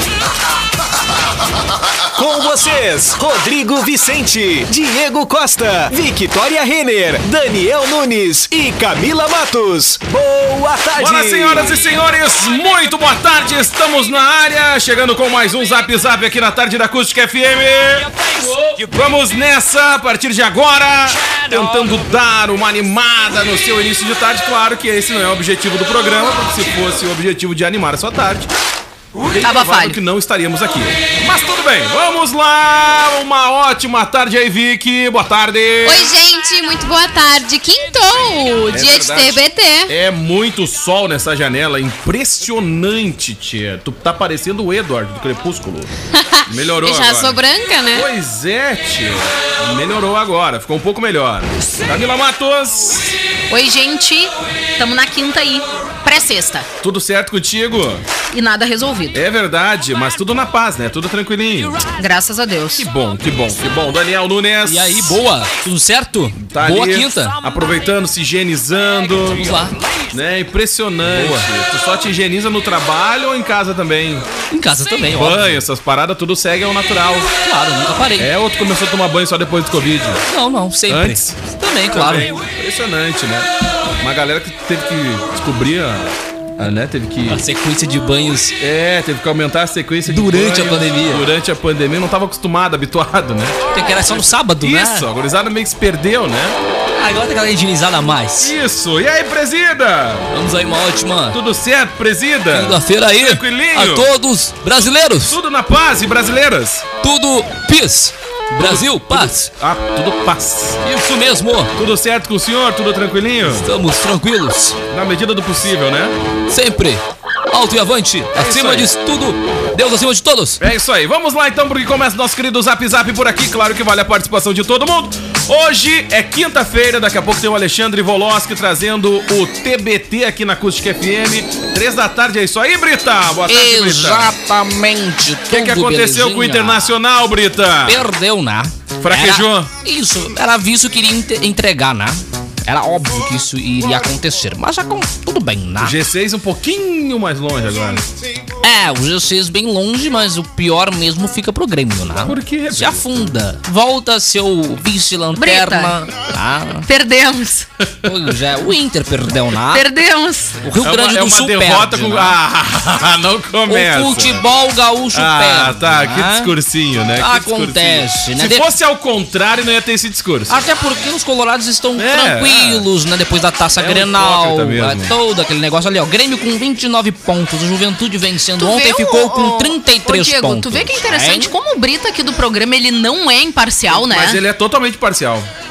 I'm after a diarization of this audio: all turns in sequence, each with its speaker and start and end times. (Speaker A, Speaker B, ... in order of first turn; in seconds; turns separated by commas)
Speaker A: 2.1-11.8, Speaker B: 10.9-28.5, Speaker C: 21.6-21.9, Speaker B: 29.2-36.1, Speaker D: 29.4-30.0, Speaker E: 35.8-39.9, Speaker B: 38.7-45.9, Speaker E: 46.1-48.1, Speaker B: 46.5-47.4, Speaker B: 47.9-53.1, Speaker D: 53.5-56.6, Speaker B: 56.8-58.0, Speaker D: 58.3-59.2, Speaker B: 59.1-61.8, Speaker D: 62.0-62.9, Speaker B: 62.8-65.2, Speaker C: 64.7-67.4, Speaker B: 66.4-74.3, Speaker C: 69.3-69.8, Speaker C: 71.0-71.5, Speaker C: 74.5-75.6, Speaker B: 75.1-77.3, Speaker C: 77.4-78.3, Speaker B: 78.2-80.2, Speaker C: 80.2-82.4, Speaker B: 80.9-81.4, Speaker B: 81.9-87.4, Speaker C: 87.3-88.5, Speaker B: 88.6-96.6, Speaker C: 90.0-91.2, Speaker C: 93.7-95.1, Speaker C: 97.0-98.5, Speaker B: 98.4-100.3, Speaker C: 100.3-101.4, Speaker B: 101.3-104.1, Speaker C: 102.5-105.4, Speaker B: 105.2-106.8, Speaker C: 107.0-109.5, Speaker B: 108.5-110.8, Speaker C: 110.8-111.7, Speaker B: 111.7-113.7, Speaker C: 113.5-114.8, Speaker B: 114.9-116.1, Speaker C: 116.5-120.6, Speaker B: 118.3-118.9, Speaker B: 120.6-134.3, Speaker C: 133.5-136.9, Speaker B: 135.5-138.1, Speaker C: 137.8-145.9, Speaker B: 139.0-139.7, Speaker B: 145.8-148.1, Speaker C: 148.6-156.8, Speaker B: 152.2-153.2, Speaker D: 155.3-156.0, Speaker D: 156.8-157.7, Speaker B: 157.8-158.3, Speaker C: 158.0-159.8, Speaker D: 159.7-160.6, Speaker C: 160.6-162.4, Speaker B: 160.8-164.4, Speaker C: 163.7-166.5, Speaker B: 165.1-170.6, Speaker C: 167.2-168.7, Speaker C: 170.5-181.5, Speaker B: 172.0-172.9, Speaker B: 173.8-175.1, Speaker D: 178.6-184.4, Speaker B: 183.9-185.5